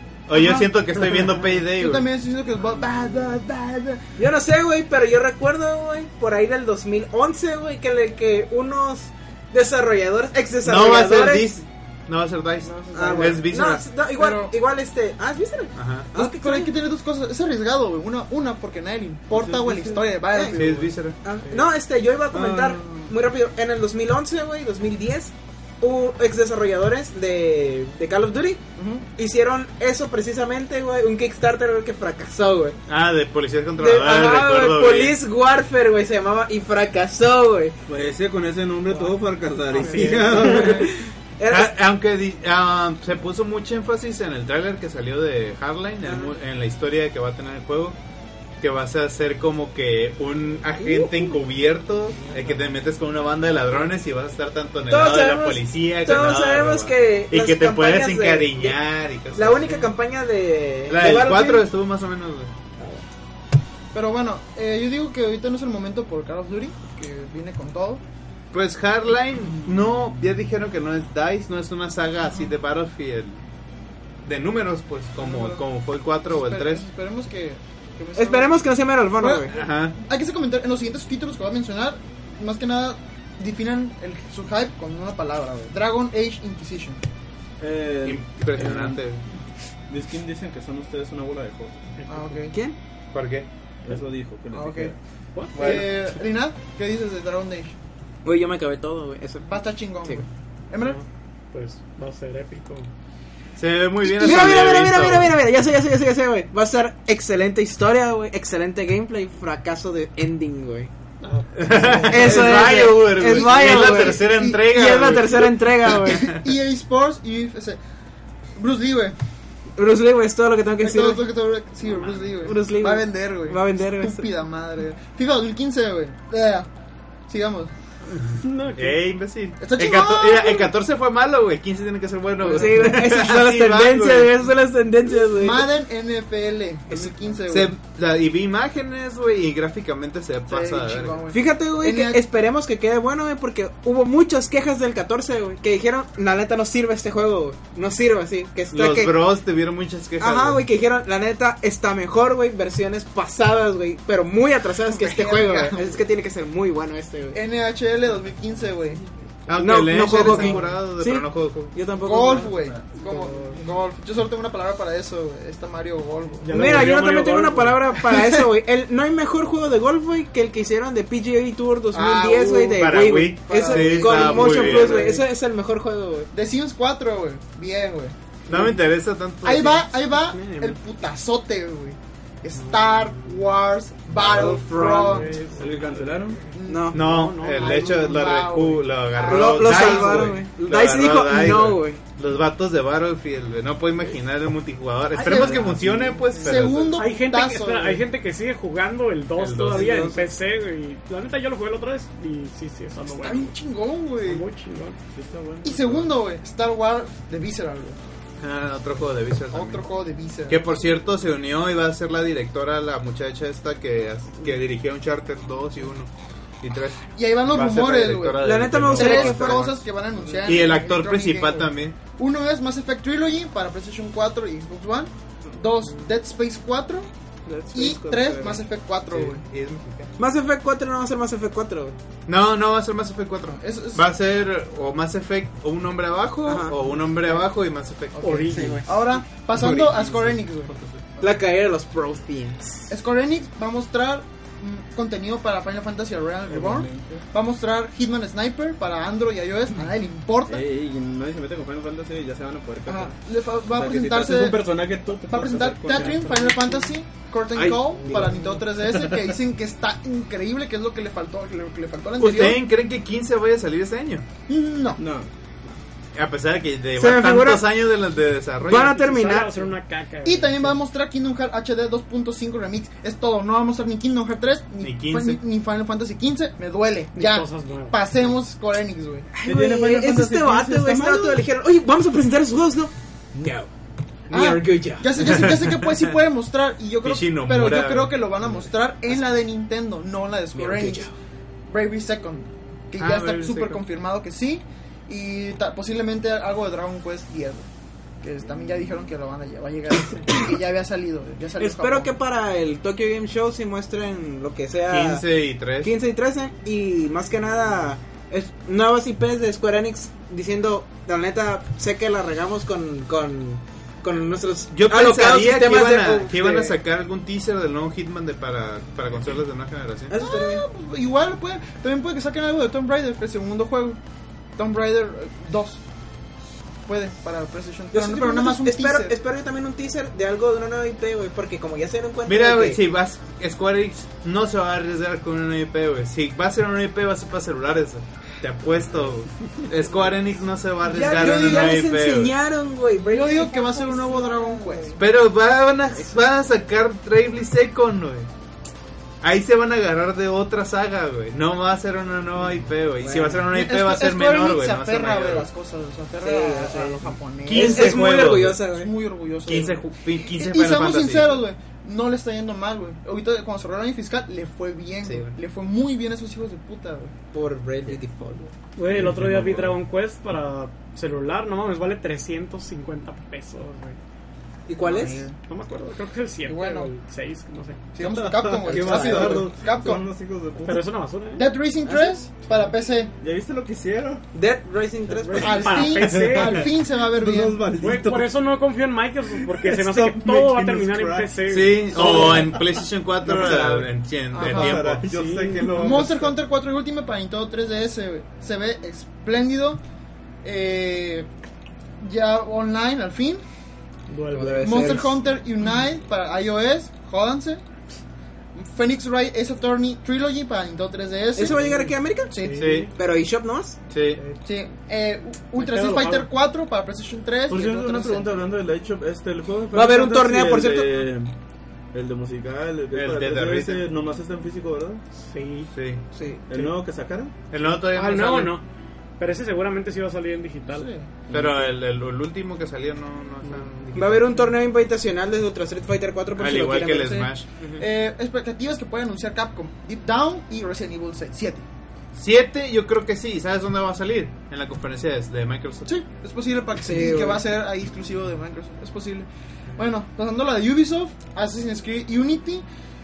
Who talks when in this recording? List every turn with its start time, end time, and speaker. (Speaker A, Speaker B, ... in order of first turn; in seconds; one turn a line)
Speaker A: 0.3-2.1
Speaker B: 0.3-4.0
Speaker C: 4.2-11.5
Speaker A: 10.6-13.9
Speaker B: 12.7-13.5
Speaker C: 12.9-16.7
Speaker B: 14.2-14.5
Speaker A: 15.8-16.1
Speaker B: 16.1-20.9
Speaker D: 19.3-20.1
Speaker C: 20.3-20.6
Speaker A: 20.5-21.2
Speaker C: 21.2-28.6
Speaker D: 22.3-23.0
Speaker B: 28.8-29.1
Speaker C: 29.2-32.8
Speaker A: 32.9-35.2
Speaker C: 33.8-37.8
Speaker D: 37.9-40.9
Speaker B: 39.7-40.9
Speaker E: 39.7-40.7
Speaker C: 40.4-41.7
Speaker A: 41.5-48.0
Speaker C: 46.0-46.3
Speaker A: 48.6-59.9
Speaker C: 50.8-51.4
Speaker E: 52.3-52.6
Speaker C: 54.9-58.8
Speaker C: 59.3-61.7
Speaker A: 60.9-62.5
Speaker B: 63.9-68.0
Speaker A: 68.5-73.4
Speaker A: 74.2-76.9
Speaker B: 75.2-75.7
Speaker B: 76.3-78.6
Speaker C: 78.2-79.5
Speaker B: 79.2-87.0
Speaker A: 79.5-80.0
Speaker D: 87.6-89.0
Speaker A: 88.0-89.2
Speaker D: 89.9-91.8
Speaker E: 92.0-92.5
Speaker B: 92.1-92.6
Speaker A: 93.1-93.5
Speaker D: 93.8-95.0
Speaker B: 94.5-94.9
Speaker E: 95.4-95.9
Speaker A: 95.5-95.9
Speaker B: 95.5-97.8
Speaker C: 98.2-100.2
Speaker B: 99.5-101.0
Speaker E: 100.8-102.9
Speaker A: 103.6-105.4
Speaker C: 104.0-110.9
Speaker E: 111.2-112.3
Speaker A: 111.5-116.4
Speaker B: 111.7-117.8
Speaker C: 112.1-116.3
Speaker B: 118.6-119.2
Speaker C: 119.8-121.2
Speaker B: 120.8-126.7
Speaker C: 122.4-124.3
Speaker B: 127.3-127.7
Speaker E: 128.3-129.0
Speaker A: 128.7-134.3
Speaker B: 129.6-130.7
Speaker C: 132.4-135.7
Speaker B: 135.2-137.7
Speaker A: 137.5-141.2
Speaker B: 140.5-142.2
Speaker C: 141.3-149.2
Speaker A: 148.7-150.7
Speaker C: 150.2-157.4
Speaker B: 154.8-156.0
Speaker B: 157.3-159.0
Speaker A: 159.5-161.8
Speaker C: 159.6-162.6
Speaker B: 162.0-166.8
Speaker E: 166.4-167.8
Speaker C: 166.5-176.3
Speaker B: 167.9-168.4
Speaker B: 171.9-172.9
Speaker A: 172.8-175.1
Speaker B: 173.5-175.2
Speaker B: 176.3-178.2
Speaker A: 178.5-179.9
Speaker B: 179.4-185.3
Speaker E: 180.1-180.8
Speaker E: 182.6-183.3
Speaker D: 184.2-186.4
Speaker C: 184.3-185.2
Speaker E: 184.8-188.2
Speaker B: 186.5-190.4
Speaker C: 186.7-187.0
Speaker A: 186.9-197.0
Speaker C: 189.2-192.0
Speaker B: 195.1-198.0
Speaker D: 195.3-196.3
Speaker E: 197.0-203.5
Speaker A: 199.4-200.2
Speaker C: 199.7-200.2
Speaker B: 203.1-204.4
Speaker E: 204.2-205.0
Speaker D: 205.1-206.1
Speaker B: 205.6-208.0
Speaker A: 208.4-209.9
Speaker B: 209.5-210.6
Speaker A: 210.5-216.1
Speaker A: 216.6-219.8
Speaker B: 217.2-227.1
Speaker C: 218.4-219.7
Speaker A: 220.4-222.0
Speaker C: 227.5-228.6
Speaker B: 227.7-229.4
Speaker A: 229.1-230.1
Speaker C: 230.2-232.0
Speaker A: 232.3-238.6
Speaker B: 233.5-234.1
Speaker C: 236.5-236.8
Speaker B: 238.2-240.7
Speaker E: 238.2-238.8
Speaker C: 238.5-238.9
Speaker D: 239.5-241.0
Speaker C: 241.2-242.9
Speaker B: 242.9-250.6
Speaker D: 246.5-247.2
Speaker D: 250.5-253.2
Speaker B: 252.9-262.6
Speaker D: 253.7-256.8
Speaker C: 257.6-258.4
Speaker D: 257.6-259.2
Speaker E: 258.1-258.4
Speaker A: 262.2-264.3
Speaker B: 264.5-265.0
Speaker D: 265.0-265.3
Speaker A: 266.1-269.0
Speaker C: 267.0-267.7
Speaker C: 268.6-269.6
Speaker E: 268.7-270.8
Speaker B: 270.2-279.3
Speaker A: 274.8-275.4
Speaker E: 277.1-278.0
Speaker C: 279.3-283.7
Speaker D: 279.4-281.4
Speaker C: 284.3-285.2
Speaker B: 284.3-291.1
Speaker A: 285.2-285.9
Speaker A: 287.0-288.2
Speaker C: 290.6-291.1
Speaker B: 291.7-297.7
Speaker A: 293.0-293.8
Speaker B: 298.2-302.1
Speaker C: 301.6-305.2
Speaker A: 304.9-305.9
Speaker C: 305.8-316.8
Speaker A: 314.7-320.1
Speaker C: 320.1-320.6
Speaker B: 320.1-324.0
Speaker B: 324.6-325.8
Speaker B: 326.9-329.1
Speaker C: 327.9-332.8
Speaker A: 332.3-342.3
Speaker C: 340.8-345.0
Speaker B: 341.0-341.8
Speaker B: 343.0-345.0
Speaker A: 345.0-348.3
Speaker A: 349.2-355.5
Speaker C: 353.0-353.4
Speaker B: 353.5-358.1
Speaker C: 356.2-358.9
Speaker A: 357.5-358.6
Speaker B: 358.7-367.1
Speaker A: 359.5-361.4
Speaker C: 365.0-365.4
Speaker C: 367.3-368.5
Speaker E: 368.8-374.0
Speaker D: 368.9-369.8
Speaker C: 374.7-375.3
Speaker B: 374.8-375.3
Speaker E: 375.5-377.8
Speaker B: 376.5-376.9
Speaker B: 377.9-380.0
Speaker D: 378.0-380.9
Speaker C: 378.6-379.5
Speaker E: 380.6-381.5
Speaker B: 381.3-383.1
Speaker C: 381.9-382.2
Speaker D: 383.2-384.3
Speaker C: 384.3-385.9
Speaker E: 385.1-386.7
Speaker B: 385.4-387.6
Speaker D: 385.9-388.3
Speaker E: 387.8-392.5
Speaker D: 389.4-392.6
Speaker A: 391.5-395.1
Speaker B: 392.0-392.4
Speaker D: 393.2-396.4
Speaker B: 394.3-394.8
Speaker E: 395.1-396.1
Speaker B: 395.7-399.8
Speaker B: 400.4-401.3
Speaker B: 402.0-403.4
Speaker E: 404.1-405.0
Speaker C: 404.3-405.2
Speaker B: 404.6-407.6
Speaker B: 408.6-412.8
Speaker C: 411.4-413.8
Speaker E: 412.4-412.9
Speaker A: 412.6-412.9
Speaker A: 413.9-414.2
Speaker B: 414.4-418.4
Speaker E: 415.6-416.3
Speaker D: 417.5-421.3
Speaker C: 419.7-421.0
Speaker D: 421.9-425.0
Speaker A: 422.9-423.9
Speaker E: 425.2-425.7
Speaker A: 425.7-426.0
Speaker C: 426.1-426.4
Speaker D: 426.5-427.3
Speaker A: 427.5-428.6
Speaker C: 427.9-428.6
Speaker E: 429.2-430.9
Speaker B: 430.6-431.1
Speaker D: 431.3-431.7
Speaker A: 431.3-434.3
Speaker E: 433.4-434.1
Speaker C: 433.9-437.8
Speaker A: 436.4-437.5
Speaker B: 437.0-441.6
Speaker A: 442.1-445.9
Speaker B: 445.9-452.6
Speaker C: 446.8-447.4